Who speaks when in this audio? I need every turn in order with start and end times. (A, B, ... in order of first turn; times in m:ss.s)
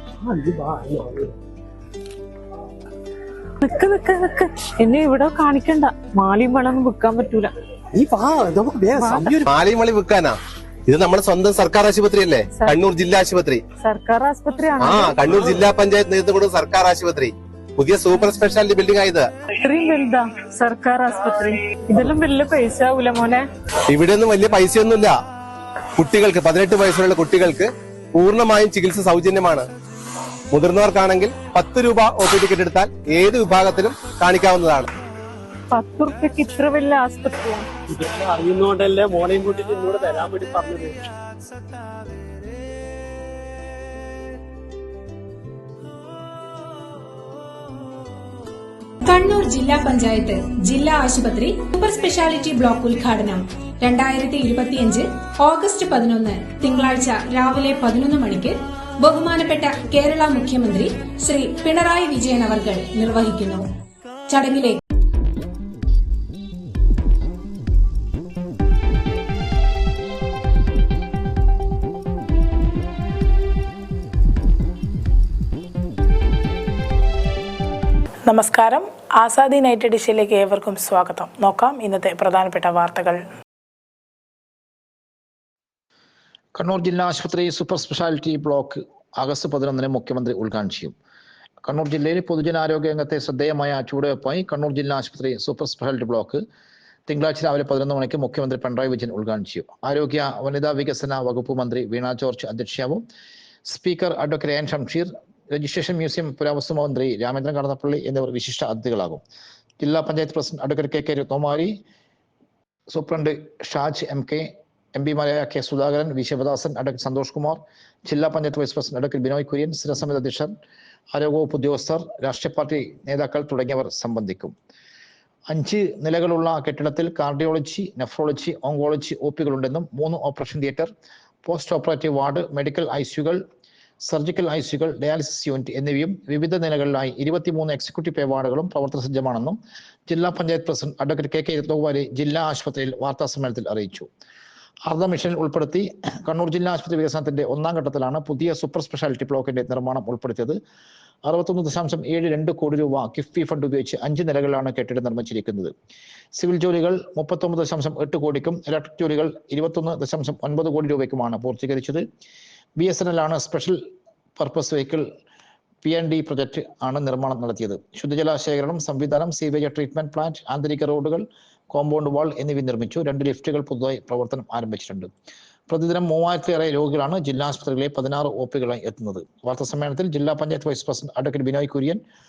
0:00.4-0:01.2 A
0:03.6-0:07.5 B
0:09.0-0:09.5 B
0:09.4-0:13.6 C
0:12.5-0:12.8 B
0:13.8-0:15.6 B
0:14.8-0:19.3 C
0:19.6-0:23.4 B
0:23.9-0:25.2 C
0:26.0-0:29.7 C
0:30.5-0:34.9 C
0:35.7-0:37.7 B
0:38.0-0:41.0 A
0:49.0-1:03.6 D
1:04.3-1:04.8 D
1:18.3-1:23.2 E
1:26.6-1:31.0 F
1:31.6-1:36.4 F
1:37.1-1:43.0 F
1:43.7-1:49.2 F
1:49.8-1:51.8 F
1:52.9-2:00.5 F
2:01.1-2:04.5 F
2:05.5-2:10.9 F
2:11.4-2:13.4 F
2:14.0-2:24.1 F
2:24.9-2:30.6 F
2:31.3-2:35.7 F
2:36.4-2:42.0 F
2:42.8-2:43.8 F
2:44.4-2:45.1 F
2:45.8-2:55.1 F
2:55.7-3:02.0 F